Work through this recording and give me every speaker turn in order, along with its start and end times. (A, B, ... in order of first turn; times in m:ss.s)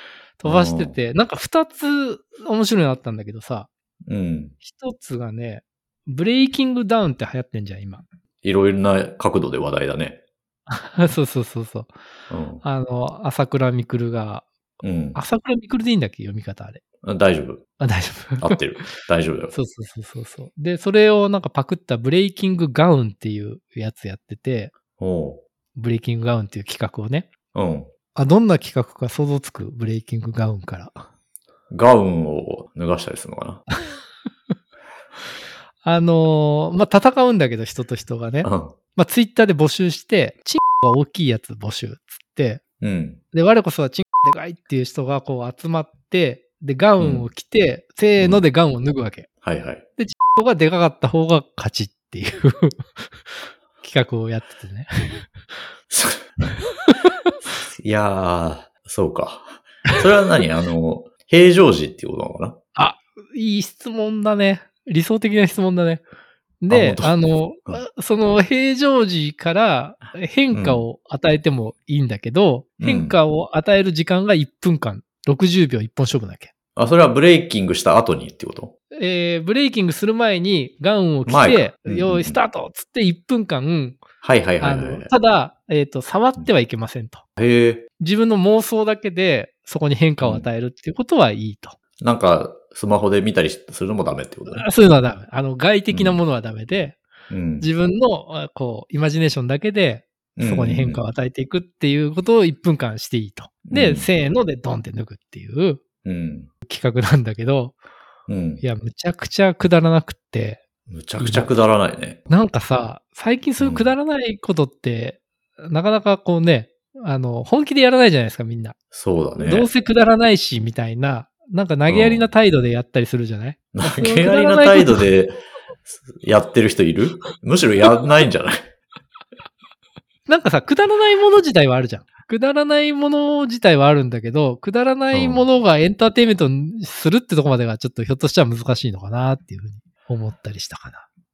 0:00.4-0:03.7 A
0:00.4-0:01.0 B
0:04.0-0:04.5 B
0:04.6-0:08.0 A
0:08.4-0:10.2 B
0:10.7-0:11.9 A
0:12.3-0:12.6 B
0:12.6-0:14.5 A
0:14.8-0:15.2 B
0:15.1-0:16.8 A
0:17.0-0:17.6 B
0:17.8-0:18.8 A
0:18.4-0:19.6 B
0:19.5-0:24.7 A
0:25.0-0:25.4 B
0:25.8-0:27.3 A
0:27.5-0:27.9 B
0:28.1-0:31.0 A
0:31.7-0:33.6 B
0:35.8-0:42.6 A
0:38.4-0:38.8 B
0:42.8-0:43.2 B
0:43.3-0:49.3 A
0:47.0-0:47.3 B
0:48.2-0:48.4 B
0:49.4-0:49.8 B
0:50.0-0:53.1 A
0:53.8-0:55.3 A
0:55.9-0:56.5 B
0:57.6-1:02.6 B
1:02.8-1:06.0 A
1:06.6-1:16.5 A
1:06.7-1:07.8 B
1:10.5-1:10.8 B
1:12.8-1:13.2 B
1:16.8-1:18.7 B
1:18.9-1:24.0 A
1:21.2-1:22.4 B
1:24.2-1:25.1 B
1:24.6-1:27.2 A
1:27.4-1:27.8 B
1:28.0-1:31.8 A
1:30.2-1:30.5 B
1:32.0-1:34.6 B
1:34.5-1:37.0 A
1:35.9-1:36.2 B
1:37.3-1:37.7 B
1:37.6-1:45.8 A
1:40.4-1:41.0 B
1:43.7-1:44.1 B
1:46.0-1:46.5 B
1:46.6-1:47.8 A
1:48.3-1:48.6 B
1:48.6-1:50.6 A
1:50.9-1:52.2 B
1:51.2-1:51.5 A
1:52.3-1:58.8 A
1:53.6-1:53.9 B
1:58.9-1:59.7 B
1:59.4-2:05.1 A
2:01.9-2:02.3 B
2:03.7-2:08.6 B
2:10.3-2:21.0 A
2:15.1-2:15.5 B